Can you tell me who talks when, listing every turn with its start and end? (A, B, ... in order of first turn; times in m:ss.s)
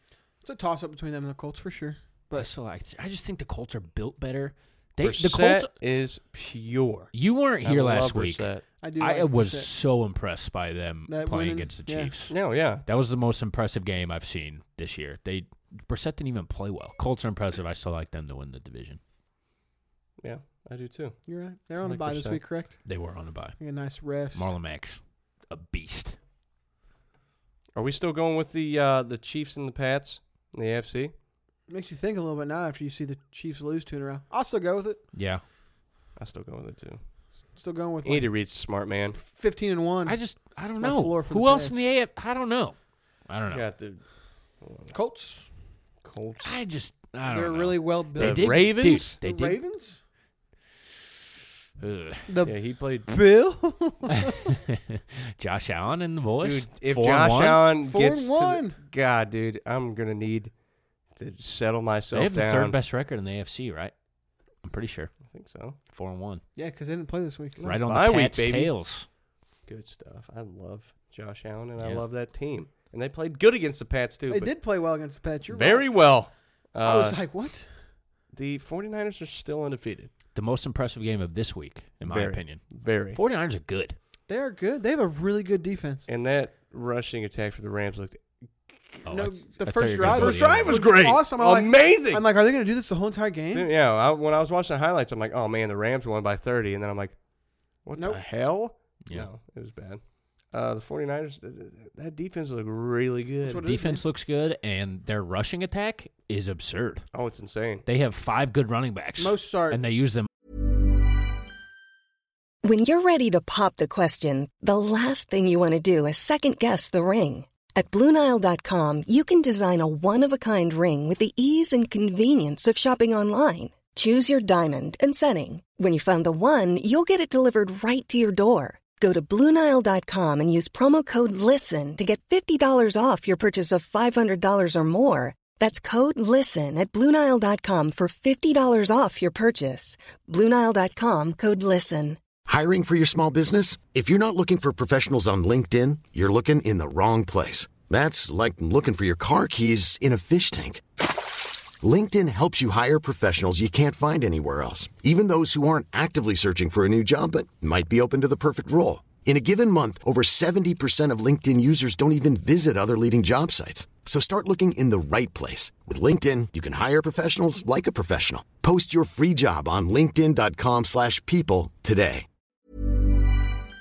0:00.4-0:02.5 A
0:02.3-0:05.7 B
0:05.0-0:08.6 C
0:07.1-0:19.0 B
0:08.8-0:09.7 A
0:11.1-0:12.1 A
0:12.3-0:12.8 C
0:20.2-0:21.2 C
0:21.3-0:22.8 A
0:21.8-0:22.4 C
0:22.8-0:23.6 B
0:23.6-0:24.5 A
0:24.3-0:26.2 B
0:27.8-0:31.1 C
0:31.7-0:35.0 A
0:35.1-0:35.4 B
0:36.2-0:37.0 C
0:37.5-0:38.3 A
0:38.0-0:39.2 C
0:39.1-0:40.2 A
0:40.0-0:42.8 B
0:40.8-0:41.8 A
0:43.3-0:43.7 B
0:43.5-0:44.0 C
0:44.6-0:44.9 C
0:44.9-0:45.5 A
0:46.0-0:46.6 C
0:46.4-0:49.6 B
0:47.2-0:50.0 A
0:48.2-0:49.1 C
0:51.8-0:52.3 B
0:52.3-0:52.5 A
0:52.4-0:53.1 C
0:53.1-0:54.5 A
0:54.7-0:57.6 B
0:56.4-1:00.5 C
0:57.8-0:58.8 A
1:01.1-1:02.8 C
1:02.1-1:03.9 B
1:04.6-1:05.1 B
1:05.3-1:05.8 C
1:05.9-1:06.4 B
1:06.6-1:07.6 A
1:07.6-1:08.7 C
1:07.6-1:09.0 B
1:09.7-1:14.5 C
1:11.8-1:12.0 B
1:14.3-1:15.9 A
1:15.5-1:17.2 C
1:16.8-1:17.7 A
1:18.3-1:20.1 C
1:20.3-1:24.0 B
1:22.0-1:23.2 C
1:24.3-1:26.0 A
1:26.1-1:28.2 C
1:29.0-1:30.8 B
1:29.0-1:33.7 A
1:30.0-1:32.2 C
1:33.5-1:37.2 C
1:37.8-1:43.6 C
1:37.9-1:38.2 A
1:43.4-1:44.0 A
1:43.6-1:47.1 B
1:47.1-1:47.8 C
1:47.8-1:50.3 B
1:49.2-1:49.8 A
1:52.6-2:22.2 D
2:22.4-2:30.8 E
2:31.8-2:52.2 E